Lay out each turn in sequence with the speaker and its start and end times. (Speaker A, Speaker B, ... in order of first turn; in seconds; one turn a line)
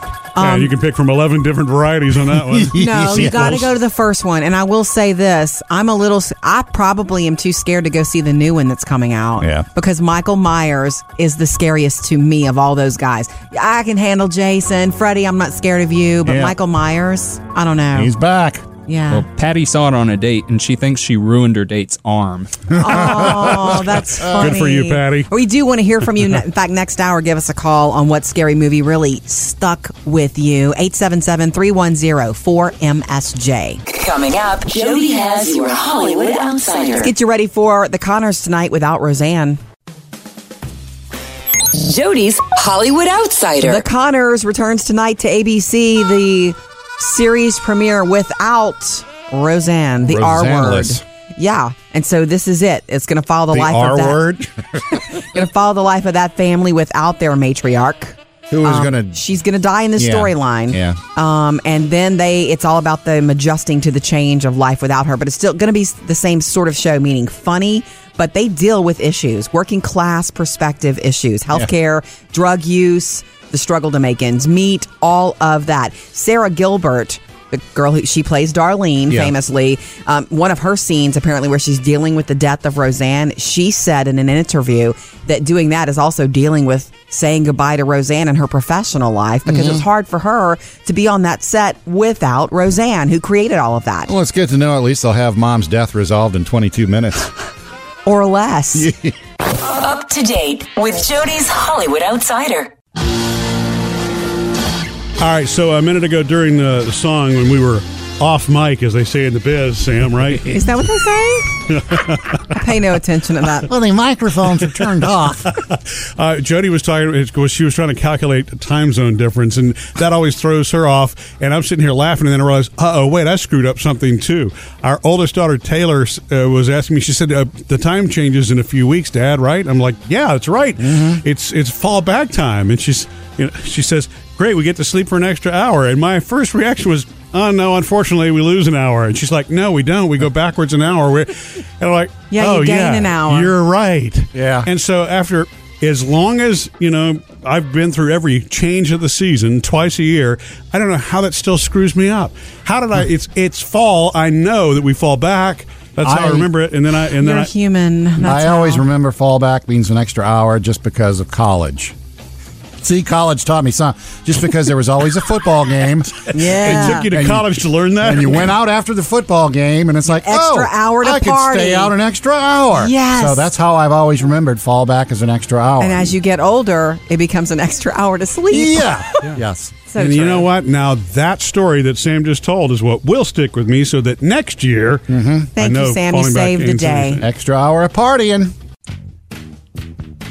Speaker A: 0.3-0.7
Speaker B: 0.4-3.6
Speaker C: 2.5-3.7
Speaker A: 2.7-18.1
Speaker C: 9.4-9.7
Speaker C: 16.2-16.6
Speaker C: 17.9-18.7
Speaker A: 18.9-19.2
Speaker D: 19.1-22.7
Speaker C: 22.7-24.5
Speaker A: 22.8-33.8
Speaker B: 24.4-25.3
Speaker E: 33.9-37.1
Speaker A: 37.0-39.6
Speaker E: 41.7-43.8
Speaker A: 43.6-54.2
Speaker C: 50.0-51.0
Speaker C: 53.5-55.0
Speaker A: 54.9-94.1
Speaker C: 58.5-59.2
Speaker C: 60.0-61.0
Speaker C: 79.1-79.3
Speaker C: 89.5-89.8
Speaker C: 94.1-97.3
Speaker A: 98.0-98.9
Speaker C: 98.7-99.1
Speaker E: 99.6-102.7
Speaker B: 105.2-110.7
Speaker A: 110.5-111.5
Speaker B: 111.7-112.6
Speaker A: 112.5-113.7
Speaker C: 113.7-115.5
Speaker B: 115.5-157.5
Speaker C: 130.8-131.2
Speaker A: 142.3-143.5
Speaker C: 144.3-144.7
Speaker C: 156.0-156.5
Speaker A: 157.2-158.8
Speaker C: 158.2-161.9
Speaker C: 162.8-176.1
Speaker A: 166.3-167.1
Speaker B: 166.5-168.5
Speaker A: 170.1-171.9
Speaker A: 172.8-173.5
Speaker A: 175.8-179.1
Speaker C: 178.5-179.8
Speaker A: 179.9-180.5
Speaker B: 179.9-185.1
Speaker C: 185.1-185.5
Speaker A: 185.6-187.2
Speaker B: 185.6-187.2
Speaker C: 187.2-188.5